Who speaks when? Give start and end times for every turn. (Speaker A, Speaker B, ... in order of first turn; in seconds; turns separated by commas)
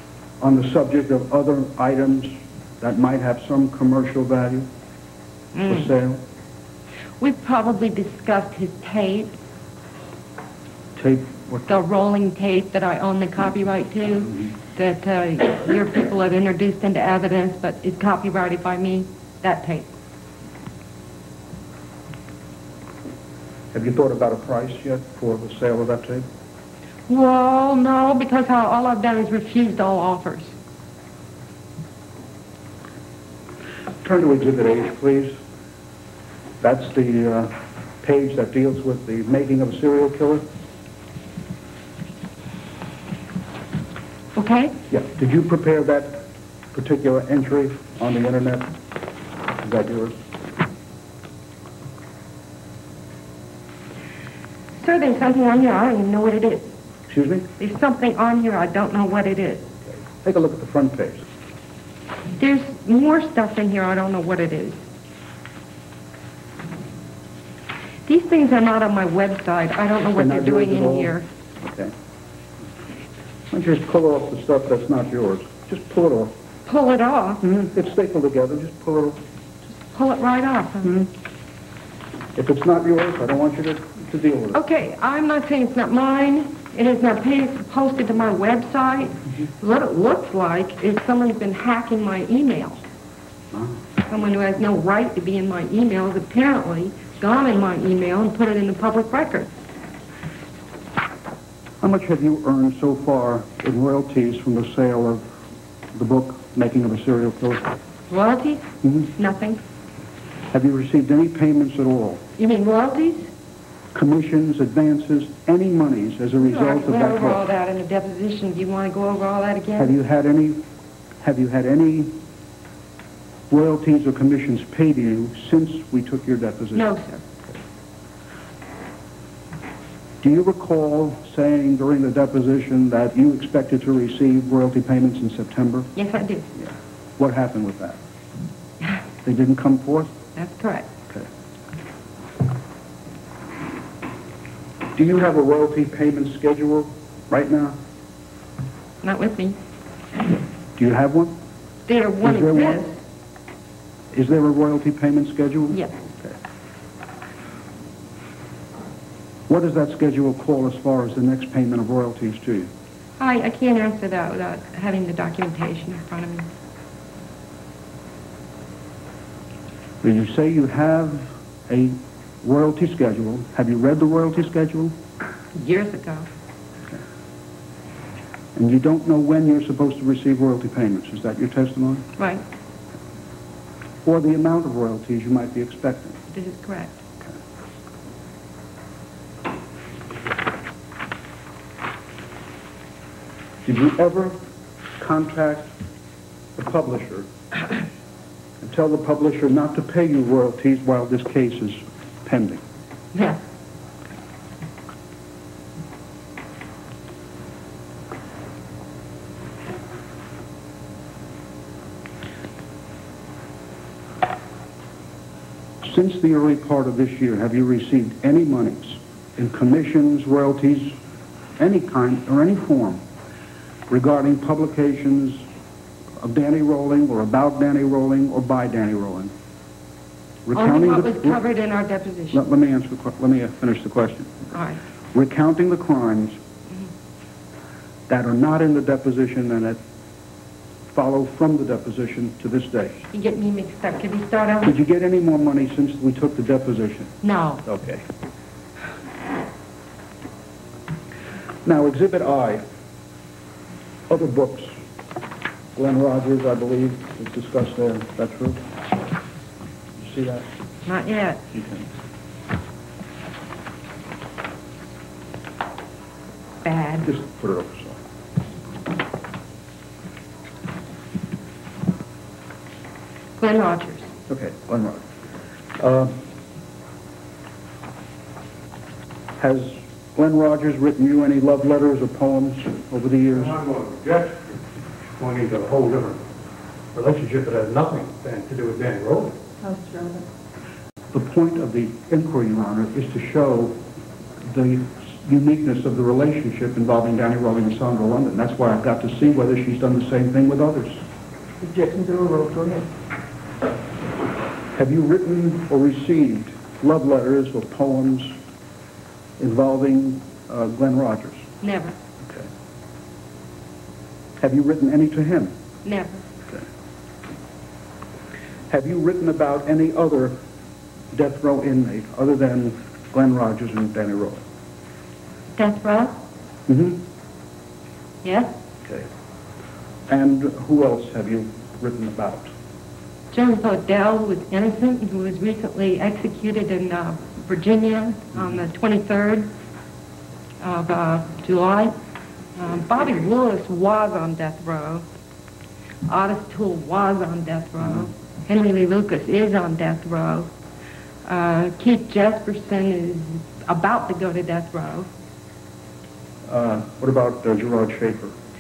Speaker A: 0.4-4.7, Speaker B: 5.5-5.9, Speaker A: 5.7-6.2, Speaker B: 7.2-9.4, Speaker A: 11.0-11.7, Speaker B: 11.7-19.9, Speaker A: 23.7-26.3, Speaker B: 27.1-30.6, Speaker A: 34.0-35.4, Speaker A: 36.6-40.4, Speaker B: 44.4-44.8, Speaker A: 44.9-48.7, Speaker A: 49.6-50.2, Speaker B: 54.8-56.7, Speaker A: 57.1-57.5, Speaker B: 57.6-59.7, Speaker A: 60.2-61.3, Speaker B: 62.4-64.8, Speaker B: 68.1-71.3, Speaker A: 70.2-71.9, Speaker A: 73.5-76.3, Speaker B: 76.7-77.4, Speaker A: 77.4-79.2, Speaker B: 79.9-81.0, Speaker A: 82.4-84.6, Speaker B: 84.5-92.8, Speaker A: 93.5-93.8, Speaker B: 94.1-99.5, Speaker A: 101.8-105.3, Speaker A: 105.9-107.7, Speaker B: 108.1-109.6, Speaker A: 108.8-109.1, Speaker A: 110.5-112.2, Speaker B: 112.4-113.3, Speaker A: 114.0-117.4, Speaker B: 116.4-120.0, Speaker A: 119.8-120.6, Speaker A: 121.2-122.2, Speaker A: 123.5-126.9, Speaker B: 126.7-127.2, Speaker A: 130.2-135.9, Speaker B: 135.9-136.5, Speaker A: 136.6-138.0, Speaker A: 139.2-140.1, Speaker B: 140.3-140.9, Speaker A: 144.9-147.8, Speaker B: 149.0-149.6, Speaker A: 150.8-151.4, Speaker B: 151.9-153.0, Speaker A: 152.2-152.8, Speaker A: 154.1-156.4, Speaker A: 159.5-162.7, Speaker B: 163.2-166.5, Speaker A: 170.0-174.9, Speaker B: 175.5-176.3, Speaker A: 178.6-182.1, Speaker B: 182.2-182.4, Speaker A: 184.1-186.2, Speaker B: 186.3-187.0, Speaker A: 193.7-194.3, Speaker A: 195.0-195.7, Speaker A: 196.6-197.3, Speaker A: 198.6-202.6, Speaker B: 203.1-203.4, Speaker A: 215.8-221.0, Speaker A: 221.6-223.0, Speaker A: 223.9-225.4, Speaker A: 226.2-229.3, Speaker A: 230.5-231.4, Speaker B: 230.5-232.5, Speaker A: 232.3-234.5, Speaker B: 234.5-234.8, Speaker A: 235.1-236.4, Speaker A: 238.1-239.8, Speaker A: 240.9-243.1, Speaker B: 243.1-244.8, Speaker A: 244.6-247.1, Speaker B: 247.2-247.6, Speaker A: 247.7-248.0, Speaker A: 251.7-252.7, Speaker A: 254.1-254.8, Speaker A: 255.8-258.6, Speaker A: 260.0-260.5, Speaker B: 260.9-261.4, Speaker A: 261.5-261.9, Speaker B: 266.6-267.1, Speaker A: 267.0-268.0, Speaker B: 273.4-274.1, Speaker A: 274.3-275.0, Speaker A: 275.8-276.2, Speaker A: 279.4-283.6, Speaker C: 283.5-286.3, Speaker C: 286.9-289.4, Speaker D: 289.6-290.2, Speaker A: 291.1-293.9, Speaker A: 294.5-301.0, Speaker D: 301.6-302.9, Speaker A: 304.7-308.4, Speaker A: 309.4-311.5, Speaker B: 311.6-312.0, Speaker A: 314.4-315.6, Speaker B: 315.8-316.2, Speaker A: 318.7-320.4, Speaker A: 321.1-324.4, Speaker B: 325.6-326.1, Speaker A: 326.7-327.0, Speaker B: 328.2-328.5, Speaker A: 330.1-332.5, Speaker B: 333.3-339.5, Speaker B: 340.6-341.9, Speaker B: 342.6-345.1, Speaker B: 346.1-350.5, Speaker B: 351.2-355.1, Speaker A: 356.5-358.3